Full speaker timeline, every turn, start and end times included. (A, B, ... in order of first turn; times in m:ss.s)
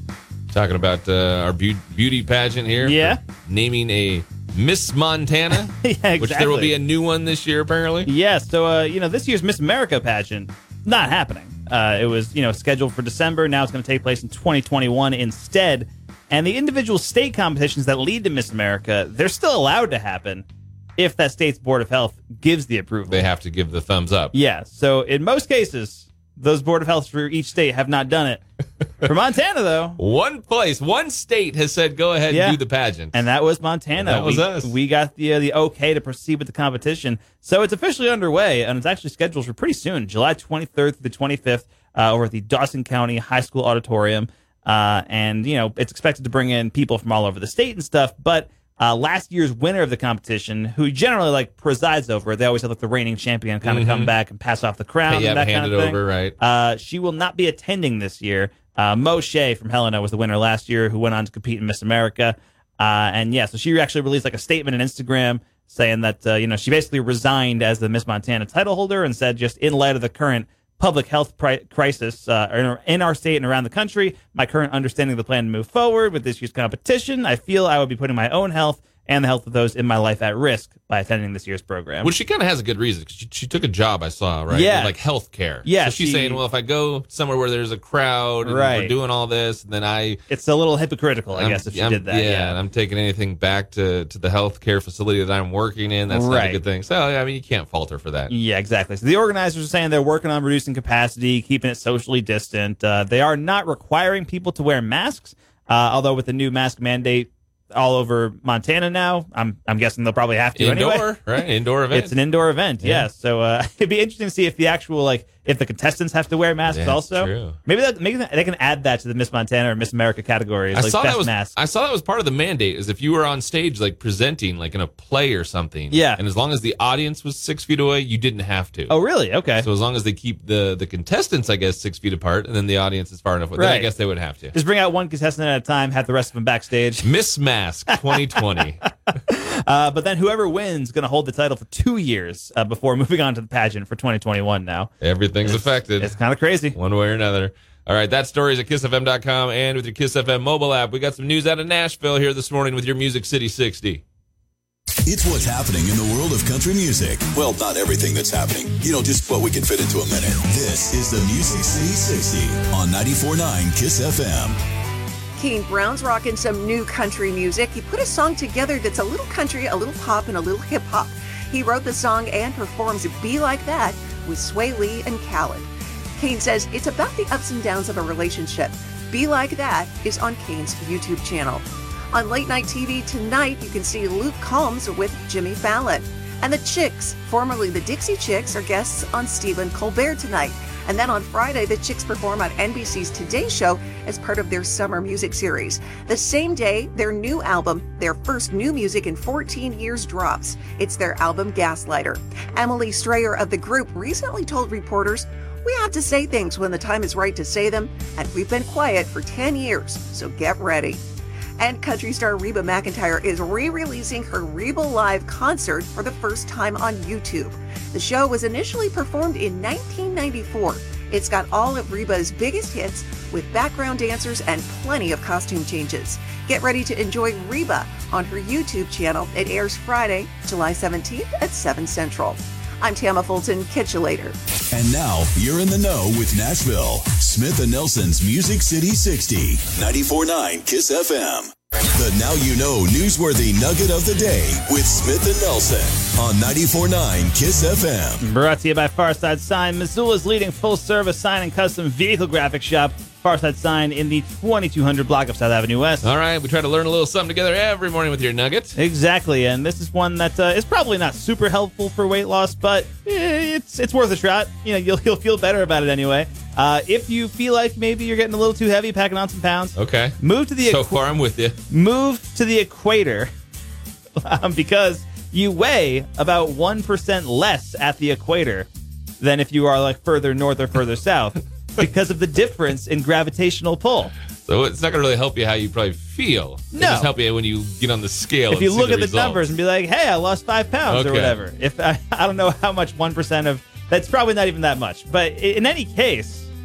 0:00.5-0:08.1 A
0:02.8-0:03.2 B
0:05.8-0:06.7 B
0:08.1-0:20.4 B
0:21.0-0:23.3 B
0:23.1-0:24.3 A
0:24.3-0:28.4 B
0:29.0-0:30.0 B
0:30.0-0:33.2 A
0:32.3-0:32.6 B
0:33.1-1:22.1 B
0:34.0-0:34.8 A
0:53.6-0:54.1 A
0:55.1-0:56.4 A
1:22.0-1:30.2 A
1:24.5-1:24.9 B
1:25.6-1:26.4 B
1:28.4-1:28.9 B
1:30.3-1:32.6 B
1:31.3-1:38.3 A
1:36.1-1:36.6 B
1:38.3-1:51.1 B
1:50.6-1:52.1 A
1:51.9-2:01.5 B
1:52.8-1:53.1 A
1:56.7-1:57.6 A
2:00.7-2:08.9 A
2:05.9-2:06.2 B
2:08.9-2:09.7 B
2:09.6-2:14.6 A
2:13.6-2:13.9 B
2:14.5-2:17.1 B
2:17.0-2:18.8 A
2:19.1-2:24.9 B
2:25.0-2:26.2 A
2:25.4-2:26.8 B
2:26.7-2:34.0 A
2:35.1-2:44.6 C
2:45.4-3:31.0 D
3:31.6-3:54.4 D
3:54.7-4:08.2 C
4:08.2-4:16.1 B
4:16.0-4:18.8 A
4:18.8-4:30.9 B
4:29.8-4:31.6 A
4:31.7-4:33.3 B
4:34.2-4:38.7 B
4:39.2-4:44.1 B
4:44.5-4:49.5 A
4:46.7-4:47.1 B
4:48.5-4:56.5 B
4:50.9-4:51.4 A